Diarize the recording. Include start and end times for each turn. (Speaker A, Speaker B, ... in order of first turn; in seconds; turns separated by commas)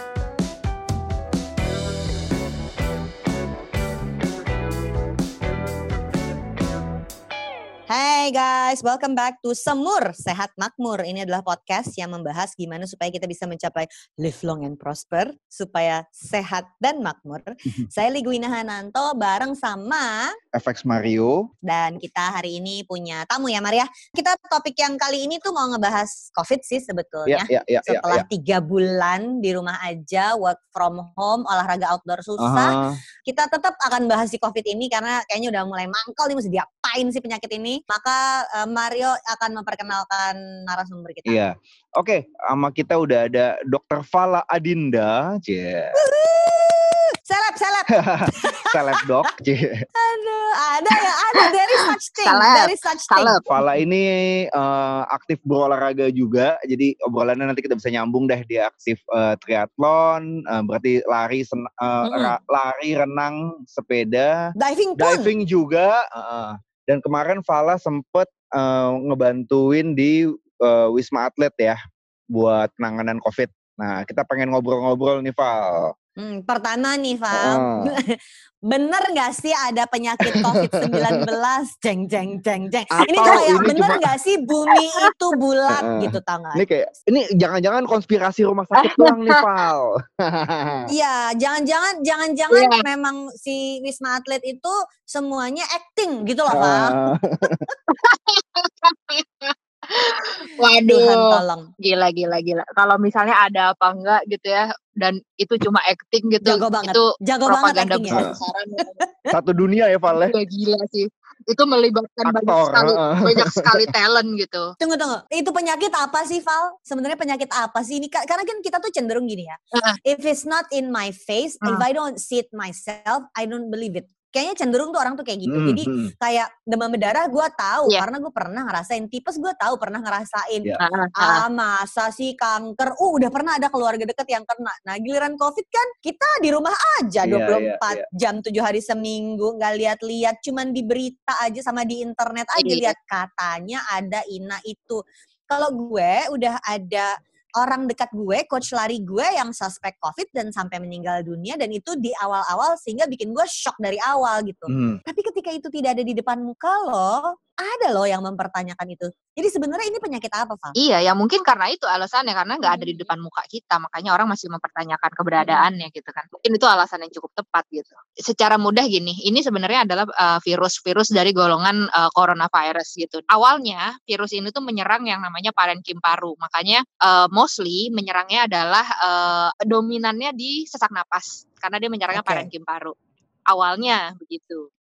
Speaker A: 7.9-20.3, Speaker B: 20.5-21.4, Speaker A: 21.6-32.7, Speaker B: 27.3-28.2, Speaker B: 32.4-33.0, Speaker A: 33.2-41.4, Speaker B: 41.3-46.0, Speaker A: 46.0-48.6, Speaker B: 47.9-49.8, Speaker A: 50.0-53.4, Speaker C: 51.3-53.4, Speaker B: 53.5-71.8, Speaker A: 62.0-62.4, Speaker A: 64.6-65.3, Speaker B: 72.3-75.9, Speaker A: 76.2-78.2, Speaker B: 77.3-77.9, Speaker A: 78.7-86.6, Speaker B: 80.2-81.0, Speaker B: 82.9-84.0, Speaker C: 84.7-85.1, Speaker B: 85.7-90.9, Speaker C: 88.8-89.3, Speaker A: 90.9-97.0, Speaker C: 92.5-92.8, Speaker B: 96.5-97.6, Speaker C: 97.9-109.0, Speaker A: 100.8-101.7, Speaker A: 106.4-108.3, Speaker A: 109.0-109.3, Speaker B: 109.3-110.3, Speaker C: 110.1-114.7, Speaker B: 112.2-113.8, Speaker A: 114.8-160.7, Speaker B: 125.5-126.1, Speaker C: 130.8-131.4, Speaker B: 137.2-138.0, Speaker C: 142.6-142.9, Speaker B: 154.7-155.0, Speaker C: 160.8-182.9, Speaker A: 162.6-163.1, Speaker A: 165.4-165.7, Speaker A: 182.1-182.5, Speaker C: 183.5-184.7